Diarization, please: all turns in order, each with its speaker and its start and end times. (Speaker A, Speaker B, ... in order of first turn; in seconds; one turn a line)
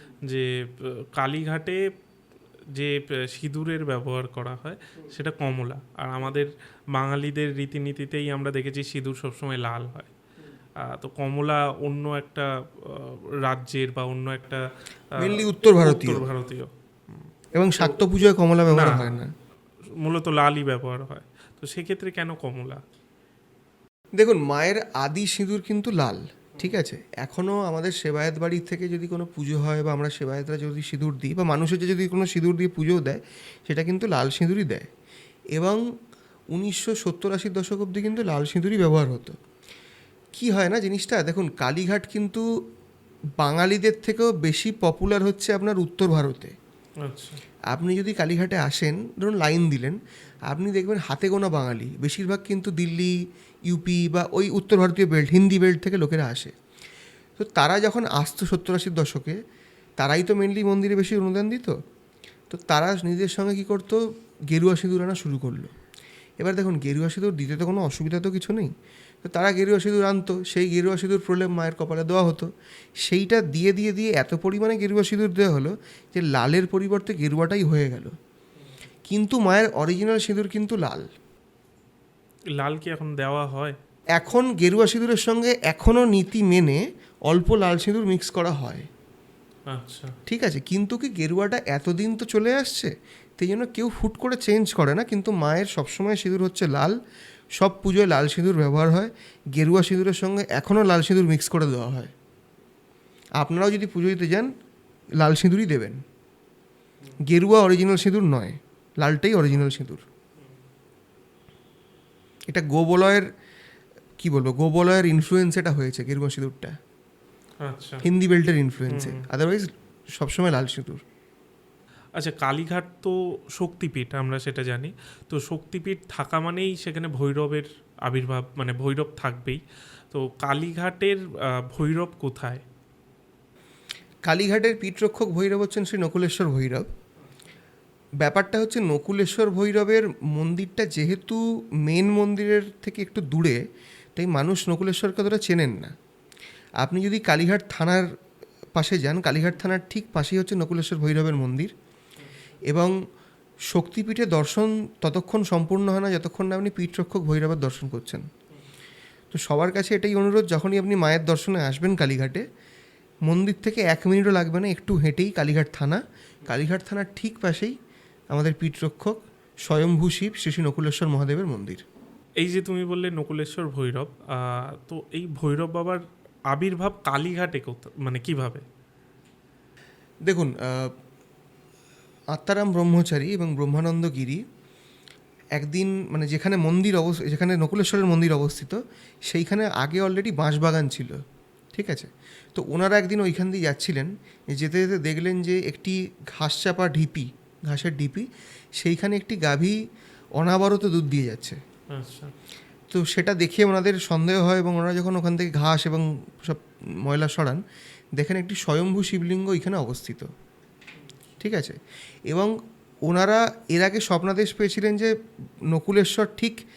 Speaker A: 0.2-1.8
Speaker A: 2.7-10.1
Speaker A: 10.8-14.6
Speaker A: 15.2-17.3
Speaker B: 15.2-16.3
Speaker B: 17.5-19.3
Speaker A: 18.7-19.2
Speaker A: 20.0-22.8
Speaker B: 24.2-34.9
Speaker B: 35.5-35.8
Speaker B: 36.5-39.4
Speaker B: 40.3-42.5
Speaker B: 43.4-46.5
Speaker A: 47.0-47.4
Speaker B: 47.7-53.2
Speaker B: 53.7-56.5
Speaker B: 57.4-59.4
Speaker B: 60.0-61.8
Speaker B: 62.5-65.7
Speaker B: 66.4-68.7
Speaker B: 69.2-72.5
Speaker B: 73.0-78.1
Speaker B: 79.1-81.0
Speaker A: 82.5-83.8
Speaker B: 84.2-88.9
Speaker A: 89.7-90.1
Speaker B: 90.3-97.0
Speaker B: 97.6-102.1
Speaker B: 103.4-104.5
Speaker B: 105.2-106.0
Speaker B: 107.3-110.0
Speaker B: 112.5-113.2
Speaker B: 114.2-116.7
Speaker A: 117.6-118.0
Speaker B: 118.0-121.0
Speaker A: 118.9-119.2
Speaker A: 122.2-129.6
Speaker A: 130.1-132.6
Speaker B: 134.3-136.9
Speaker B: 138.2-143.6
Speaker B: 144.2-145.9
Speaker B: 146.8-148.1
Speaker B: 148.8-151.7
Speaker B: 152.7-153.0
Speaker B: 153.7-158.2
Speaker B: 159.3-162.4
Speaker B: 163.3-167.8
Speaker B: 168.3-171.8
Speaker A: 172.4-178.6
Speaker B: 180.2-180.9
Speaker B: 182.3-184.4
Speaker B: 185.6-191.2
Speaker B: 191.7-198.3
Speaker B: 198.8-199.8
Speaker B: 200.4-201.6
Speaker A: 201.9-202.3
Speaker B: 202.9-207.6
Speaker B: 208.2-210.3
Speaker B: 211.4-211.8
Speaker B: 213.1-215.1
Speaker B: 215.7-216.6